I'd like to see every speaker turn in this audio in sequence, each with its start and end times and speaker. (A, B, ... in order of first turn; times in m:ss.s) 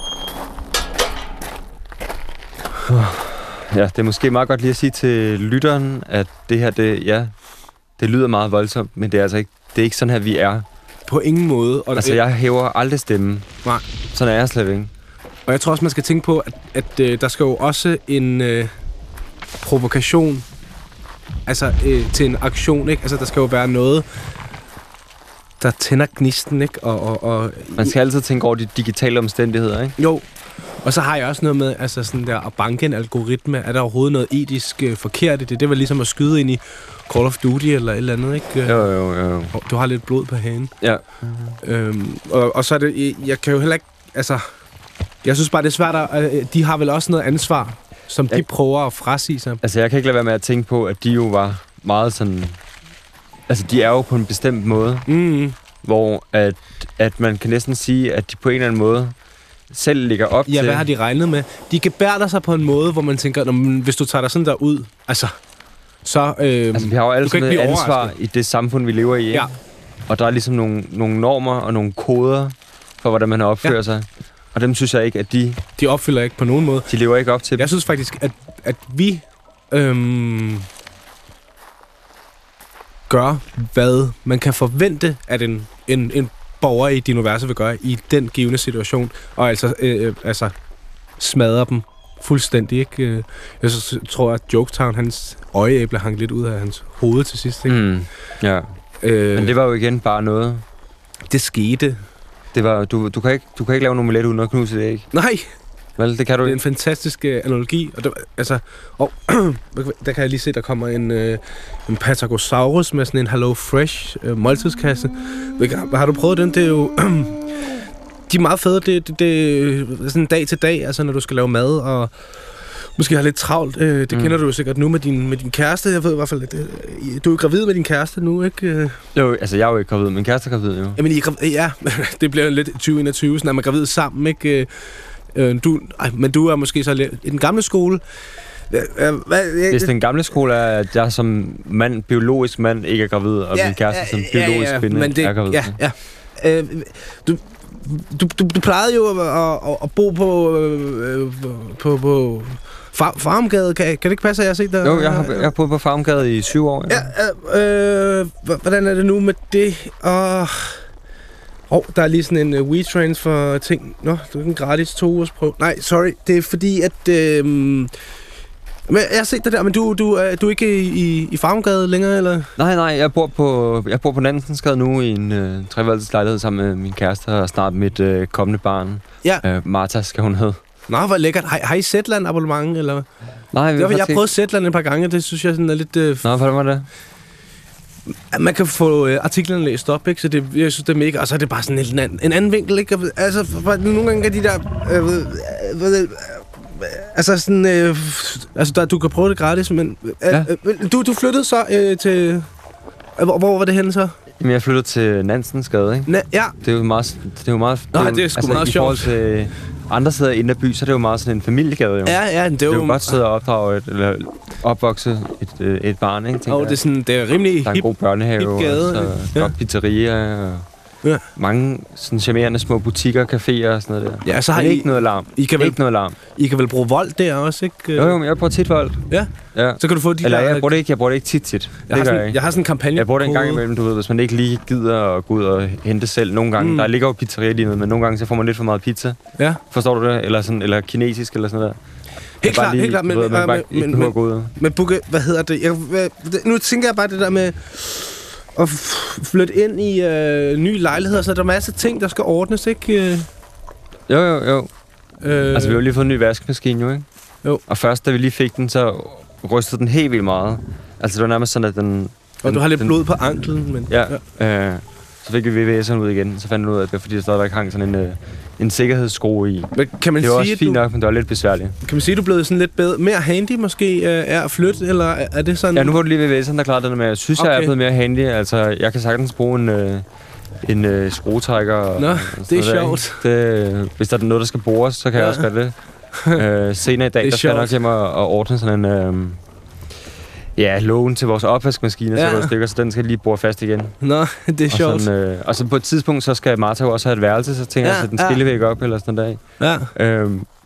0:03.1-0:07.3 A
0:08.0-0:10.6 A
0:11.1-0:12.2 B
0:12.0-0:13.5 A
0:14.1-0:14.9 A
0:15.5-0:18.7 B
0:19.6-0:20.4 B
0:21.4-0:24.0 B
0:25.6-0:27.9 B
0:27.8-0:30.0 A
0:30.0-0:30.2 B
0:30.8-0:38.9 B
0:38.6-0:39.5 A
0:39.5-0:40.7 B
0:40.8-0:41.6 A
0:41.6-0:44.4 B
0:45.2-0:49.6 B
0:49.6-0:52.6 A
0:53.5-0:55.1 A
0:55.1-0:55.6 B
0:55.8-0:59.1 A
0:59.7-1:00.9 A
1:00.5-1:05.4 B
1:06.0-1:08.1 B
1:06.7-1:09.5 A
1:10.1-1:15.6 A
1:15.8-1:16.9 B
1:16.9-1:17.7 A
1:17.6-1:20.7 B
1:23.1-1:30.5 B
1:31.2-1:37.8 B
1:37.6-1:38.7 A
1:39.0-1:39.6 B
1:39.3-1:40.6 A
1:41.3-1:42.0 B
1:42.5-1:45.1 A
1:45.1-1:45.5 B
1:46.0-1:46.6 A
1:46.4-1:57.6 B
1:58.3-2:09.0 B
2:04.1-2:04.4 A
2:09.1-2:11.0 A
2:11.0-2:18.0 B
2:18.7-2:19.9 B
2:19.7-2:25.8 A
2:23.5-2:35.5 B
2:34.8-2:37.1 A
2:36.9-2:40.8 B
2:41.7-2:47.9 B
2:48.9-2:52.5 B
2:52.6-3:00.6 A
3:00.9-3:03.1 B
3:03.5-3:04.2 A
3:03.8-3:06.2 B
3:06.2-3:06.9 A
3:08.3-3:22.5 B
3:23.2-3:24.1 B
3:24.4-3:36.8 A
3:26.1-3:26.5 B
3:27.9-3:29.1 B
3:32.0-3:33.2 B
3:36.5-3:39.5 B
3:37.6-3:40.6 A
3:41.4-3:46.2 A
3:44.2-3:45.8 B
3:46.3-3:48.2 B
3:48.0-3:52.4 A
3:49.1-3:50.7 B
3:51.9-3:53.6 B
3:52.9-3:59.2 A
3:56.6-3:56.9 B
3:59.7-4:01.8 A
4:02.4-4:04.5 A
4:02.4-4:13.3 B
4:14.1-4:14.7 A
4:15.2-4:15.8 B
4:15.5-4:17.0 A
4:17.7-4:23.0 A
4:22.4-4:24.2 B
4:23.9-4:31.8 A
4:29.7-4:30.8 B
4:31.8-4:36.0 B
4:35.7-4:40.0 A
4:37.4-4:37.7 B
4:40.6-4:45.7 A
4:42.0-4:43.2 B
4:45.2-4:45.5 B
4:46.3-4:49.4 A
4:47.2-4:47.7 B
4:50.6-4:54.0 A
4:52.1-4:52.5 B
4:54.0-4:55.1 B
4:54.7-4:59.4 A
4:57.8-4:58.4 B
4:59.6-4:59.9 B
4:59.9-5:00.5 A